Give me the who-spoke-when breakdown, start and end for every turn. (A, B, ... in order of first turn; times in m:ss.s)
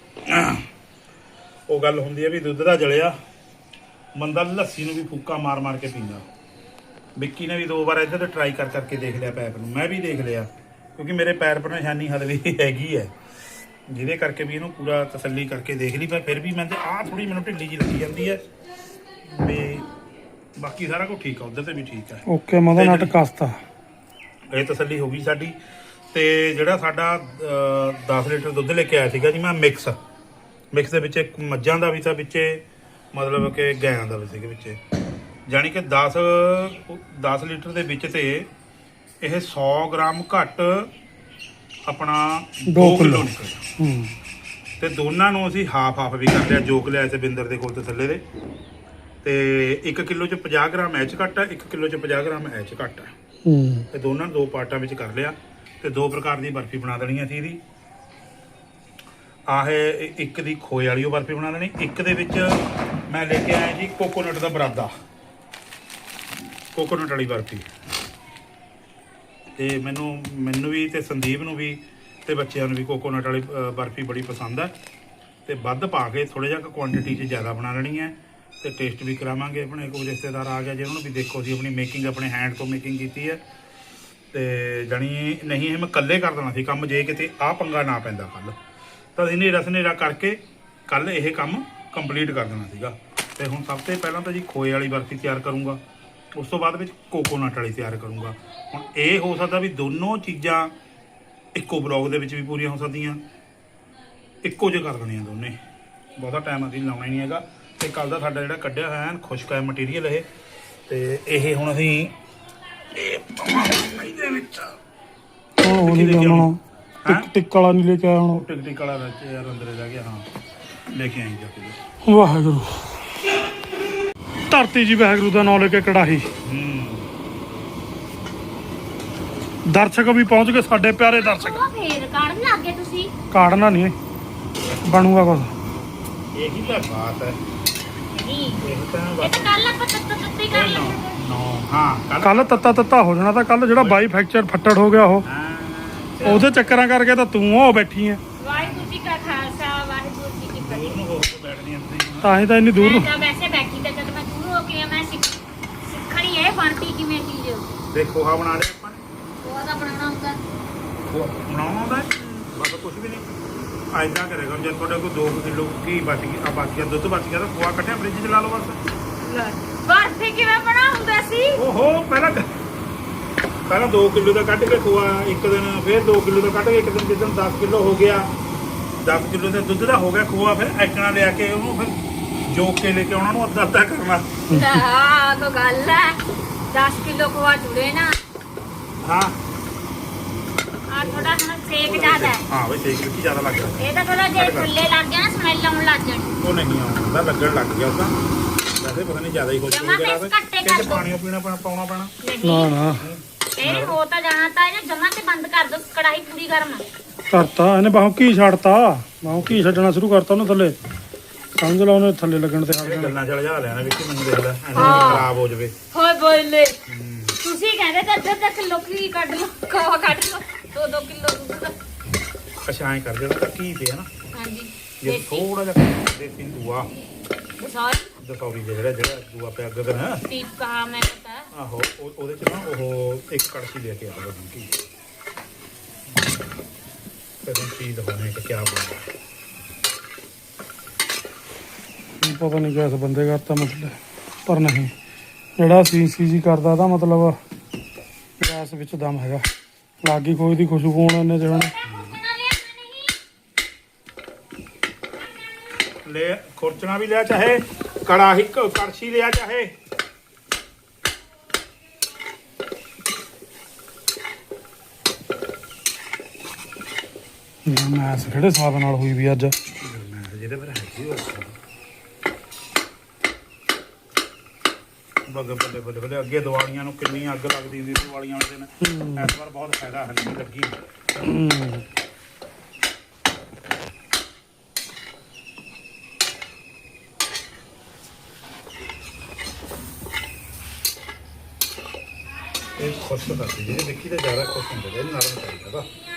0:00.2-0:00.6 A
0:01.7-0:03.2 A
0:04.2-0:06.3 A
0:07.2-0:13.1 A
0:13.9-0:18.4 A
0:19.3-0:19.9 A
0:20.6-0:23.1 A
0:22.3-0:23.6 B
0:24.5-0:25.6 A
0:26.1-0:30.0 A
0:30.7-0:34.8 A
0:35.5-0:38.5 A
0:39.2-0:40.9 A
0:41.9-0:43.6 A
0:42.7-0:44.1 B
0:44.8-0:48.2 A
0:49.2-0:53.2 A
0:53.4-0:53.9 B
0:53.9-0:57.6 A
0:59.5-1:04.9 A
1:06.7-1:07.7 A
1:09.6-1:14.7 A
1:15.4-1:23.4 A
1:24.3-1:28.6 A
1:29.2-1:35.8 A
1:36.3-1:40.7 A
1:41.5-1:43.2 A
1:44.4-1:45.6 A
1:46.2-1:50.3 A
1:50.9-1:52.1 A
1:52.9-1:54.8 A
1:55.6-1:58.4 B
1:55.6-1:57.3 A
1:58.3-2:00.3 A
2:00.9-2:01.8 A
2:02.0-2:02.8 B
2:04.5-2:06.3 B
2:06.4-2:07.1 A
2:09.6-2:11.6 B
2:11.1-2:13.1 C
2:13.3-2:14.0 B
2:14.8-2:15.5 B
2:16.3-2:17.4 A
2:18.1-2:18.6 C
2:18.6-2:19.5 A
2:19.2-2:21.2 C
2:20.5-2:22.9 A
2:22.2-2:25.2 B
2:23.7-2:24.1 A
2:25.2-2:26.5 A
2:26.2-2:28.2 B
2:28.4-2:31.0 C
2:28.5-2:28.9 A
2:30.6-2:32.4 A
2:32.2-2:33.1 B
2:32.8-2:37.7 C
2:37.9-2:39.0 A
2:39.4-2:40.4 C
2:41.0-2:43.4 A
2:43.9-2:48.8 A
2:49.2-2:51.6 C
2:51.5-2:52.5 A
2:53.7-2:58.3 A
2:59.0-3:04.4 A
3:04.5-3:04.8 B
3:04.5-3:06.2 C
3:06.7-3:08.2 C
3:09.0-3:09.4 A
3:10.9-3:12.4 C
3:11.0-3:14.7 A
3:13.8-3:16.4 C
3:16.4-3:18.2 A
3:18.8-3:22.1 A
3:19.7-3:21.0 C
3:22.2-3:22.7 C
3:22.4-3:23.0 B
3:23.0-3:24.0 A
3:23.6-3:26.9 C
3:27.3-3:30.8 B
3:31.6-3:33.2 B
3:32.8-3:35.7 A
3:34.7-3:35.3 C
3:35.9-3:36.8 C
3:36.9-3:37.4 A
3:37.4-3:41.7 C
3:42.6-3:44.1 A
3:44.3-3:45.4 C
3:45.0-3:46.9 A
3:47.6-3:48.1 C
3:48.2-3:50.2 A
3:50.3-3:51.5 C
3:51.5-3:54.8 A
3:57.4-3:59.1 A
4:02.2-4:04.9 B
4:05.6-4:07.4 B
4:08.4-4:09.5 B
4:10.0-4:11.7 B
4:11.5-4:13.1 C
4:11.8-4:12.2 A
4:16.0-4:19.7 A
4:27.6-4:29.5 B
4:29.8-4:31.6 A
4:35.3-4:40.8 A
4:38.8-4:39.3 B
4:41.2-4:41.8 B
4:52.8-4:55.9 A